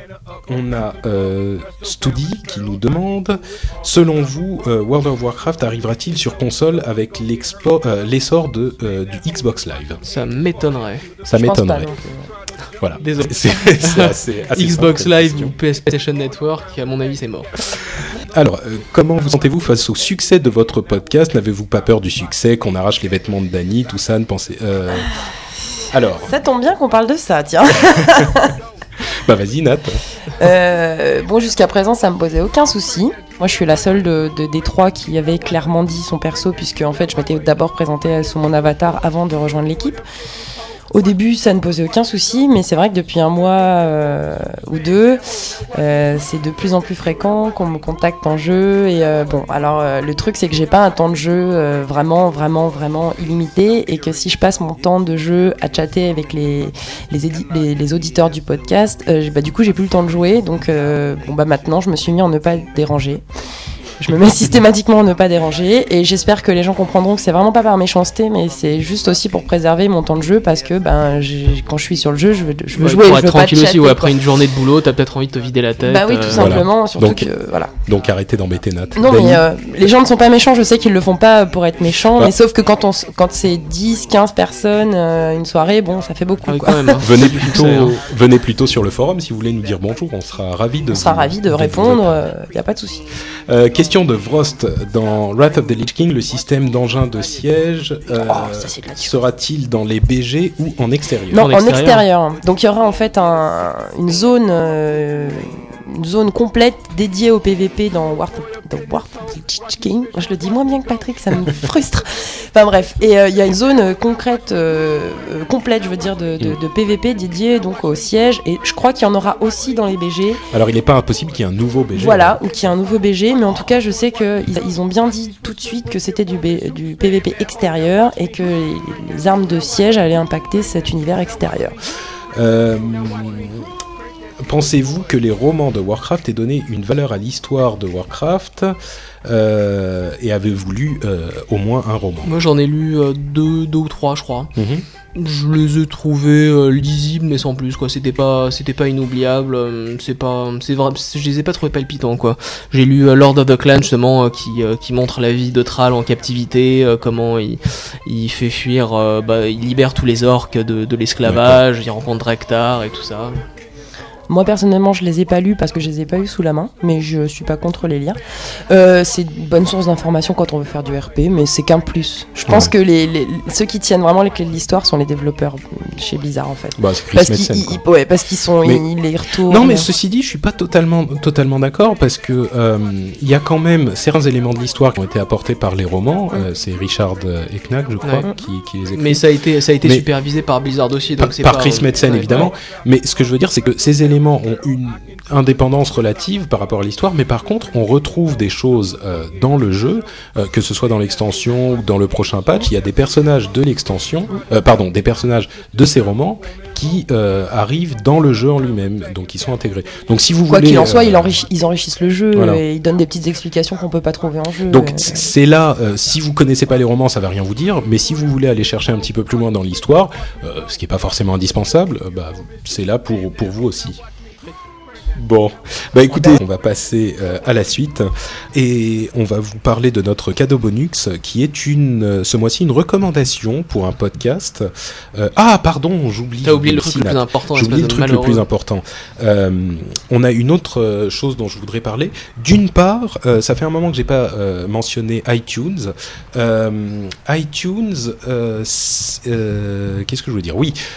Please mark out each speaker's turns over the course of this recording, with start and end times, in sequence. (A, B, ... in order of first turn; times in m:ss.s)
0:00.5-0:10.0 A
0:10.0-0:11.0 B
0:11.2-0:11.9 A
0:11.3-0:12.3 C
0:12.8-0:15.6 A
0:13.0-0:17.5 B
0:18.3-0:25.1 A
0:25.9-0:26.3 A
0:26.2-0:28.5 C
0:29.2-0:30.0 A
0:30.4-0:40.0 C
0:40.9-1:03.2 C
1:04.0-1:14.2 C
1:12.7-1:16.7 B
1:15.8-1:17.7 C
1:16.3-1:17.3 A
1:17.8-1:19.4 A
1:18.9-1:27.0 C
1:26.4-1:28.0 B
1:27.0-1:32.2 A
1:30.9-1:33.0 C
1:33.5-1:41.4 A
1:38.2-1:39.2 C
1:41.3-2:00.4 C
1:41.3-1:42.0 B
2:00.5-2:02.4 A
2:01.9-2:11.8 C
2:12.3-2:13.6 A
2:14.4-2:22.3 A
2:22.2-2:24.5 B
2:24.5-2:24.8 A
2:25.1-2:43.4 B
2:41.2-2:41.6 A
2:44.3-2:59.9 C
2:52.5-2:52.7 A
2:56.8-2:57.8 A
2:59.4-3:09.2 A
3:08.9-3:12.5 B
3:11.2-3:31.4 A
3:30.5-3:35.3 C
3:32.3-3:32.6 A
3:34.7-3:44.0 A
3:45.2-4:10.8 A
3:56.4-3:58.4 B